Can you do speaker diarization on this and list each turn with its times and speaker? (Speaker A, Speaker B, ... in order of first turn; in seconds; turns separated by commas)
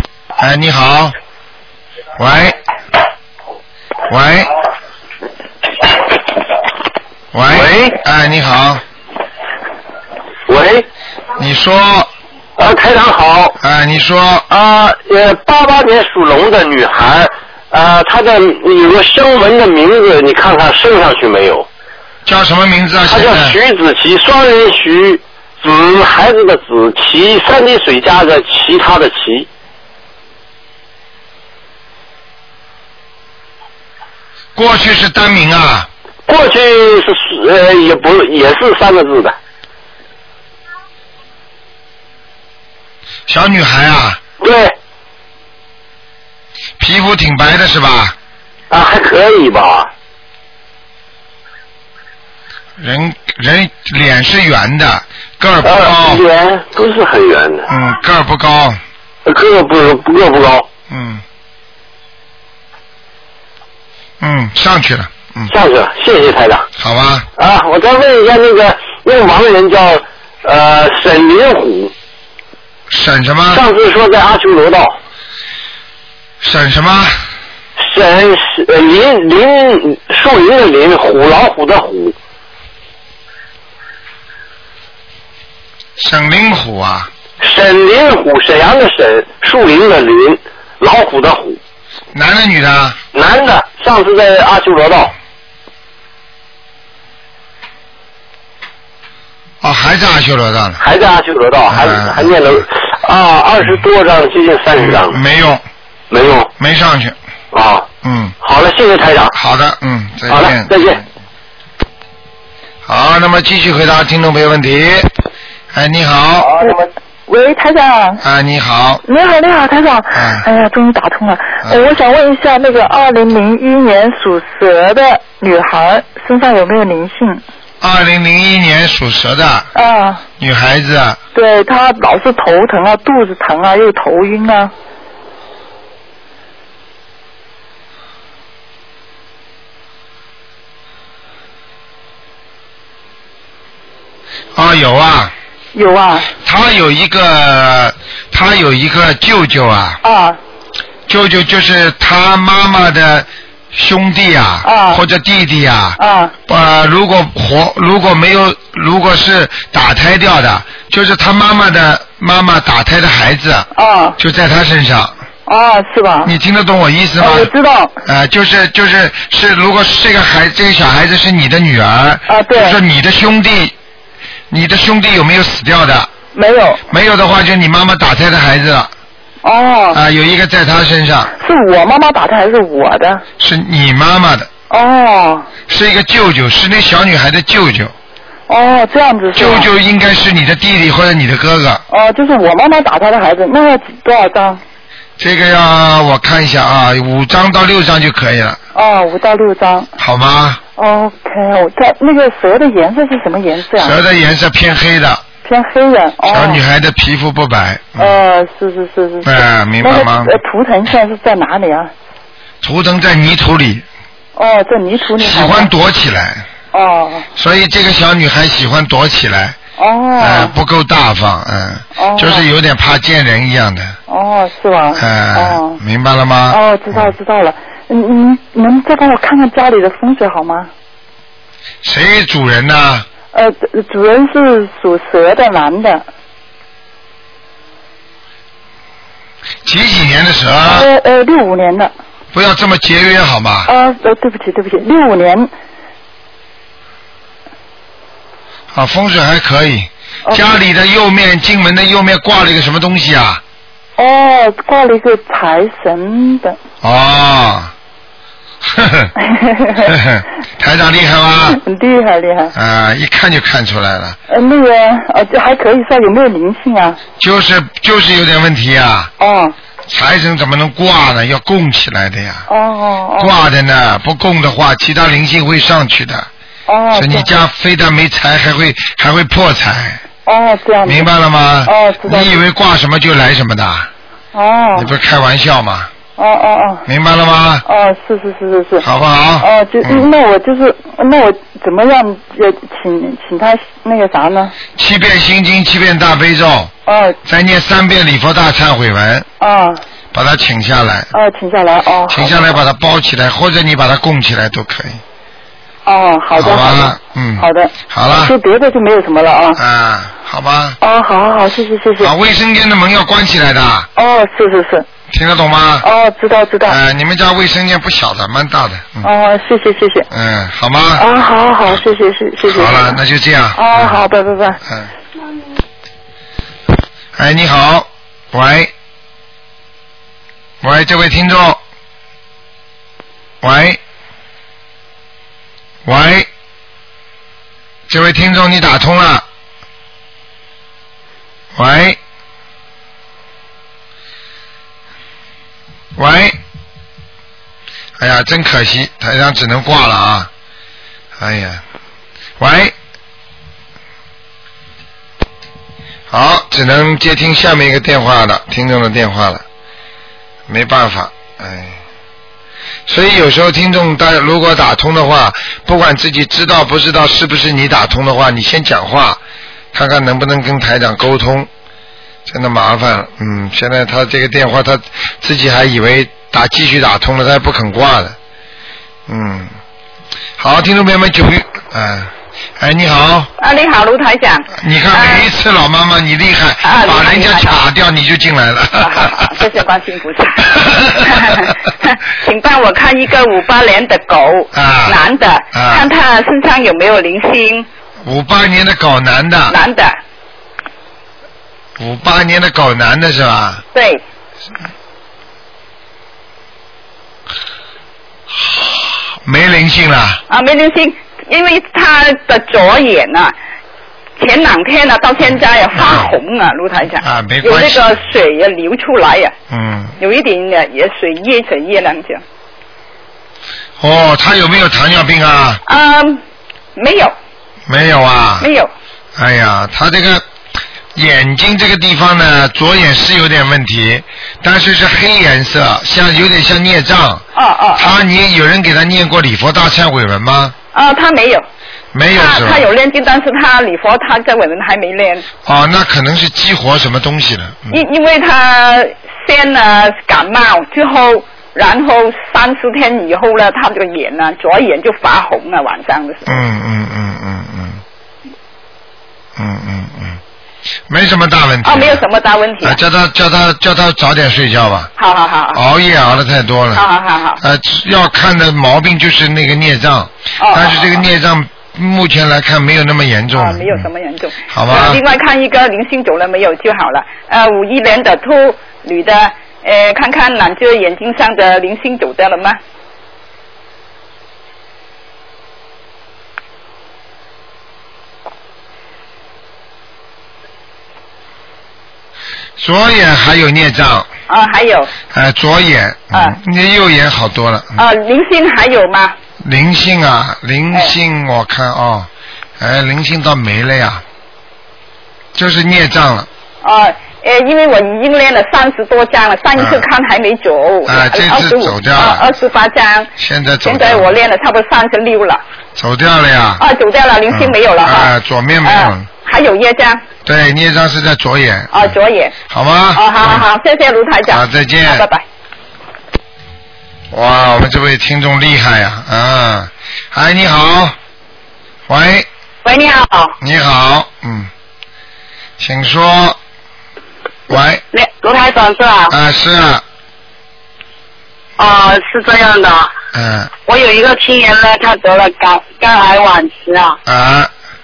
Speaker A: 0.4-1.1, Speaker A: 2.2-2.6, Speaker A: 4.1-4.5, Speaker A: 7.3-8.8, Speaker B: 7.5-8.0, Speaker B: 10.5-10.9, Speaker A: 11.3-12.1, Speaker B: 12.6-13.6, Speaker A: 13.6-14.4, Speaker B: 14.5-21.7, Speaker A: 22.2-23.6, Speaker B: 23.0-29.5, Speaker A: 34.5-35.9, Speaker B: 36.3-39.3, Speaker A: 43.3-44.2, Speaker B: 44.4-44.7, Speaker A: 46.8-48.1, Speaker B: 48.7-49.9, Speaker A: 52.8-56.2, Speaker B: 55.6-57.7, Speaker A: 57.7-58.8, Speaker B: 59.2-60.7, Speaker A: 60.9-61.2, Speaker A: 64.2-65.5, Speaker B: 65.5-66.7, Speaker A: 66.8-67.3, Speaker B: 67.4-71.9, Speaker A: 72.9-73.6, Speaker B: 73.5-75.0, Speaker A: 76.4-77.3, Speaker B: 77.8-82.1, Speaker A: 86.0-87.1, Speaker B: 87.4-91.6, Speaker A: 92.1-93.0, Speaker B: 93.1-95.1, Speaker A: 99.6-100.8, Speaker B: 100.8-105.2, Speaker A: 101.7-102.6, Speaker A: 104.8-105.6, Speaker B: 106.1-106.5, Speaker A: 106.6-107.2, Speaker B: 107.5-107.9, Speaker A: 108.0-108.3, Speaker B: 108.4-109.3, Speaker A: 109.3-111.0, Speaker B: 110.3-111.0, Speaker A: 112.8-115.1, Speaker A: 115.7-116.5, Speaker C: 117.3-118.2, Speaker A: 118.2-119.0, Speaker C: 119.0-127.4, Speaker A: 120.1-120.5, Speaker A: 127.8-129.7, Speaker C: 129.7-130.2, Speaker A: 130.4-131.2, Speaker C: 131.3-134.7, Speaker A: 144.5-145.3, Speaker C: 145.7-146.3, Speaker A: 146.4-150.0, Speaker C: 150.0-150.4, Speaker A: 151.1-165.1, Speaker C: 154.6-155.0, Speaker C: 156.0-156.3, Speaker C: 163.7-164.2, Speaker C: 165.5-166.3, Speaker A: 166.2-167.5, Speaker C: 167.2-167.9, Speaker A: 168.0-173.7, Speaker C: 172.3-172.8, Speaker A: 174.5-176.1, Speaker C: 176.3-176.8, Speaker A: 176.9-178.9, Speaker C: 179.4-180.0, Speaker A: 179.9-181.3, Speaker C: 181.4-183.2, Speaker A: 183.4-184.5, Speaker C: 184.7-185.5, Speaker A: 185.7-187.9, Speaker C: 188.5-189.7, Speaker A: 189.3-191.8, Speaker C: 191.9-194.6, Speaker A: 195.2-198.6, Speaker C: 198.7-199.9, Speaker A: 200.0-200.6, Speaker C: 200.8-204.0, Speaker A: 203.8-205.2, Speaker C: 205.4-206.6, Speaker A: 206.2-208.2, Speaker C: 208.0-211.9, Speaker A: 209.2-210.3, Speaker A: 212.6-213.8, Speaker C: 214.3-215.7, Speaker A: 215.2-216.5, Speaker C: 216.7-217.3, Speaker A: 217.3-219.6, Speaker C: 219.8-220.5, Speaker A: 220.2-224.0, Speaker C: 222.0-222.5, Speaker C: 224.1-225.8, Speaker A: 224.9-227.1, Speaker C: 226.5-230.7, Speaker A: 231.8-233.1, Speaker C: 233.3-236.1, Speaker A: 239.6-240.9, Speaker C: 240.6-241.9, Speaker A: 242.3-243.7, Speaker C: 243.7-245.5, Speaker A: 248.7-253.4, Speaker C: 254.0-256.6, Speaker A: 256.8-257.7, Speaker A: 258.6-259.1, Speaker C: 259.2-259.9, Speaker A: 259.8-261.6, Speaker C: 261.5-262.5, Speaker A: 262.5-264.2, Speaker C: 264.3-267.0, Speaker A: 267.2-269.1, Speaker C: 269.2-269.5, Speaker A: 269.9-272.4, Speaker C: 272.5-273.3, Speaker A: 273.2-276.3, Speaker C: 276.7-277.3, Speaker A: 276.9-280.0, Speaker C: 280.2-281.1, Speaker A: 280.8-283.9, Speaker C: 281.6-282.4, Speaker C: 284.3-284.9, Speaker A: 284.7-285.9, Speaker C: 286.2-286.8, Speaker A: 286.9-287.6, Speaker C: 287.6-288.8, Speaker A: 288.8-290.1, Speaker C: 289.4-294.5, Speaker A: 294.8-296.7, Speaker C: 296.9-297.2, Speaker A: 297.2-299.3, Speaker C: 299.4-299.8, Speaker A: 300.1-301.1, Speaker C: 301.1-302.5, Speaker A: 302.1-305.0, Speaker C: 305.9-309.6, Speaker A: 306.3-308.3, Speaker A: 309.6-310.8, Speaker C: 310.8-312.1, Speaker A: 312.0-313.9, Speaker C: 313.9-314.9, Speaker A: 315.1-315.9, Speaker C: 315.8-316.8, Speaker A: 316.6-319.1, Speaker C: 319.0-320.1, Speaker A: 320.1-321.1, Speaker C: 321.0-323.0, Speaker A: 322.4-324.0, Speaker C: 323.5-324.6, Speaker A: 327.1-328.7, Speaker A: 330.6-331.6, Speaker A: 333.4-333.8, Speaker A: 335.8-336.3, Speaker A: 337.9-339.2, Speaker A: 341.5-342.0, Speaker A: 345.9-346.4, Speaker A: 348.0-350.3, Speaker A: 351.2-351.6, Speaker A: 352.4-352.7, Speaker A: 356.1-359.4, Speaker A: 360.5-361.8, Speaker A: 362.9-369.2, Speaker A: 369.7-371.5, Speaker A: 372.3-378.1, Speaker A: 379.1-379.5, Speaker A: 380.4-383.3, Speaker D: 383.4-385.3, Speaker A: 384.6-389.3, Speaker D: 386.6-387.6, Speaker D: 388.8-397.7, Speaker A: 390.5-391.4, Speaker A: 394.5-395.0, Speaker A: 395.5-395.9, Speaker A: 398.0-399.6, Speaker D: 399.5-400.0, Speaker A: 401.8-403.6, Speaker D: 403.7-404.0, Speaker A: 409.2-410.2, Speaker D: 410.3-413.3, Speaker D: 414.2-419.3, Speaker A: 415.8-416.1, Speaker A: 417.0-417.9, Speaker A: 419.5-419.9, Speaker D: 420.0-422.2, Speaker A: 423.8-425.6, Speaker D: 425.6-426.2, Speaker D: 426.8-427.1, Speaker A: 427.7-428.5, Speaker D: 428.4-428.7, Speaker A: 429.2-430.2, Speaker A: 430.9-437.2, Speaker D: 437.3-438.0, Speaker A: 437.7-440.5, Speaker D: 440.7-441.4, Speaker A: 441.9-442.6, Speaker D: 442.1-445.2, Speaker A: 445.4-447.8, Speaker D: 447.7-456.4, Speaker A: 456.2-457.8, Speaker A: 459.4-460.2, Speaker A: 460.9-462.0, Speaker D: 461.6-462.8, Speaker A: 462.6-464.9, Speaker D: 465.0-465.6, Speaker A: 465.5-466.8, Speaker D: 466.7-467.4, Speaker A: 467.4-473.9, Speaker D: 470.4-471.0, Speaker D: 473.3-482.6, Speaker A: 474.5-475.0, Speaker A: 492.6-494.1, Speaker D: 494.3-494.9, Speaker A: 495.1-497.8, Speaker D: 497.8-499.1, Speaker A: 499.4-504.0, Speaker A: 505.3-506.3, Speaker D: 506.6-513.1, Speaker A: 509.6-509.9, Speaker A: 510.9-512.2, Speaker A: 513.2-514.1, Speaker D: 513.6-515.4, Speaker A: 515.8-516.6, Speaker D: 516.6-518.1, Speaker A: 517.3-519.1, Speaker D: 518.6-520.0, Speaker A: 520.2-521.9, Speaker D: 521.7-522.4, Speaker A: 522.5-523.4, Speaker D: 522.9-525.2, Speaker A: 524.3-525.1, Speaker A: 527.1-531.0, Speaker A: 531.9-532.3, Speaker E: 532.6-533.4, Speaker A: 533.4-534.5, Speaker A: 535.6-536.4, Speaker A: 537.5-537.8, Speaker E: 537.9-539.1, Speaker A: 539.1-539.8, Speaker E: 541.6-542.9, Speaker A: 543.1-543.5, Speaker E: 543.6-547.0, Speaker A: 547.1-547.5